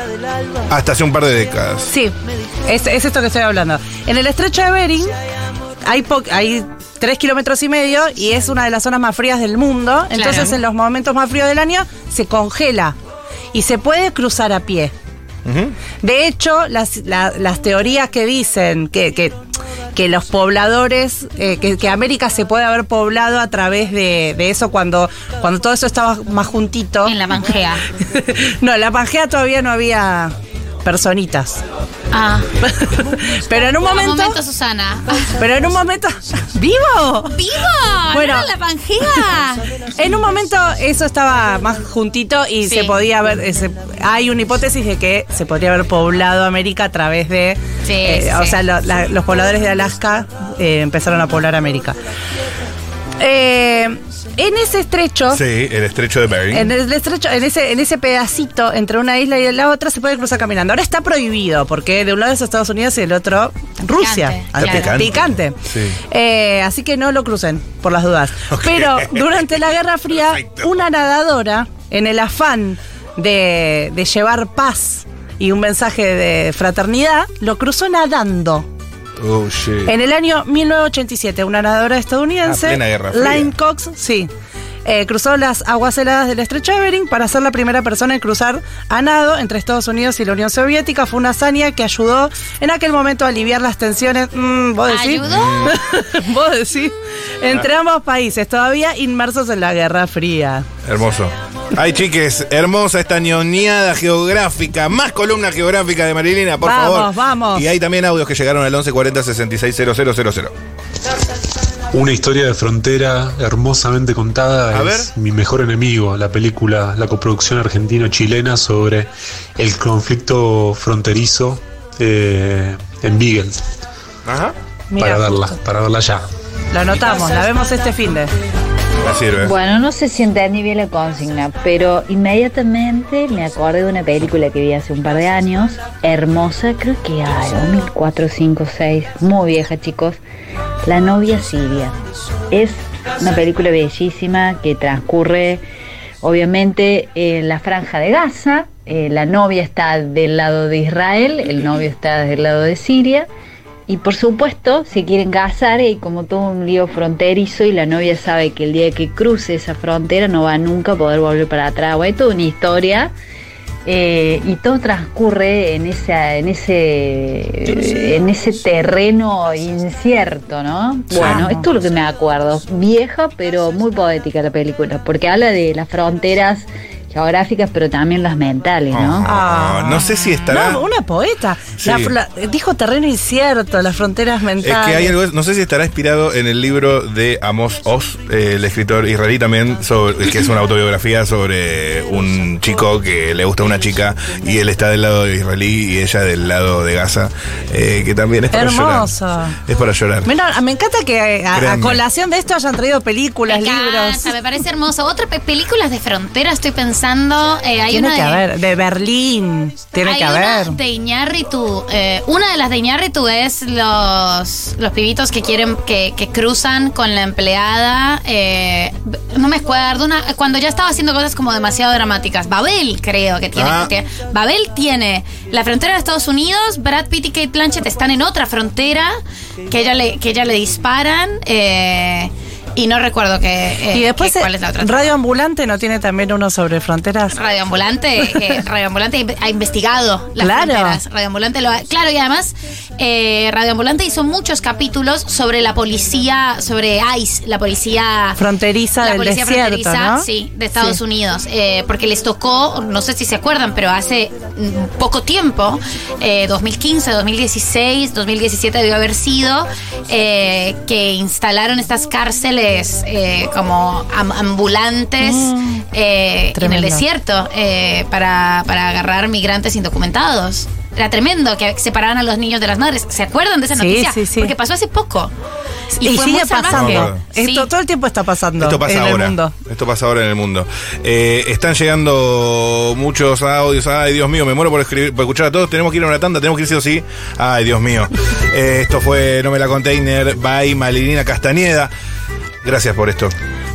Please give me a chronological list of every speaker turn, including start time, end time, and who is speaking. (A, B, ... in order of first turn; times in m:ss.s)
0:00.6-0:01.9 A
0:01.9-0:05.1 B
0:05.8-0:13.0 B
0:10.1-0:10.5 C
0:13.5-0:14.9 B
0:15.4-0:15.8 A
0:16.0-0:19.4 B
0:19.9-0:27.1 B
0:27.1-0:27.9 C
0:28.1-0:31.6 B
0:32.1-0:32.5 C
0:32.6-0:34.4 B
0:33.7-0:35.4 C
0:35.4-0:37.4 B
0:37.4-0:39.6 C
0:38.1-0:38.5 B
0:39.9-0:52.0 B
0:42.6-0:43.0 C
0:47.8-0:48.6 C
0:53.2-0:55.4 B
0:55.3-0:56.7 A
0:56.5-1:18.7 B
1:03.8-1:05.0 C
1:04.6-1:06.0 A
1:08.5-1:09.5 A
1:19.2-1:19.9 A
1:19.8-1:24.3 B
1:22.5-1:23.5 A
1:24.8-1:40.7 B
1:34.9-1:35.8 C
1:35.2-1:35.8 A
1:40.8-1:50.6 A
1:46.6-1:47.7 B
1:51.9-2:03.6 D
1:54.7-1:55.1 A
2:04.2-2:04.6 A
2:04.9-2:05.5 B
2:05.0-2:06.2 D
2:06.7-2:08.3 B
2:09.0-2:09.6 A
2:09.4-2:20.2 E
2:20.8-2:22.0 E
2:22.5-2:25.6 E
2:26.2-2:33.3 E
2:33.9-2:43.1 E
2:43.9-2:59.3 E
2:51.1-2:51.5 A
2:51.2-2:51.7 B
2:58.9-3:00.8 A
2:59.2-3:05.1 B
3:01.8-3:02.1 A
3:04.6-3:20.3 A
3:18.5-3:19.6 B
3:20.3-3:24.3 B
3:21.5-3:22.0 A
3:23.5-3:28.4 C
3:27.9-3:30.8 B
3:30.0-3:49.1 C
3:43.6-3:43.9 A
3:49.7-3:55.1 C
3:53.9-3:57.4 B
3:57.3-4:08.4 C
4:00.4-4:01.0 B
4:08.4-4:11.0 B
4:09.0-4:35.3 C
4:25.2-4:25.8 B
4:26.6-4:27.1 B
4:33.8-4:34.5 B
4:35.9-4:39.6 B
4:36.0-4:37.7 C
4:36.7-4:37.2 A
4:38.6-4:51.9 A
4:52.6-4:53.4 A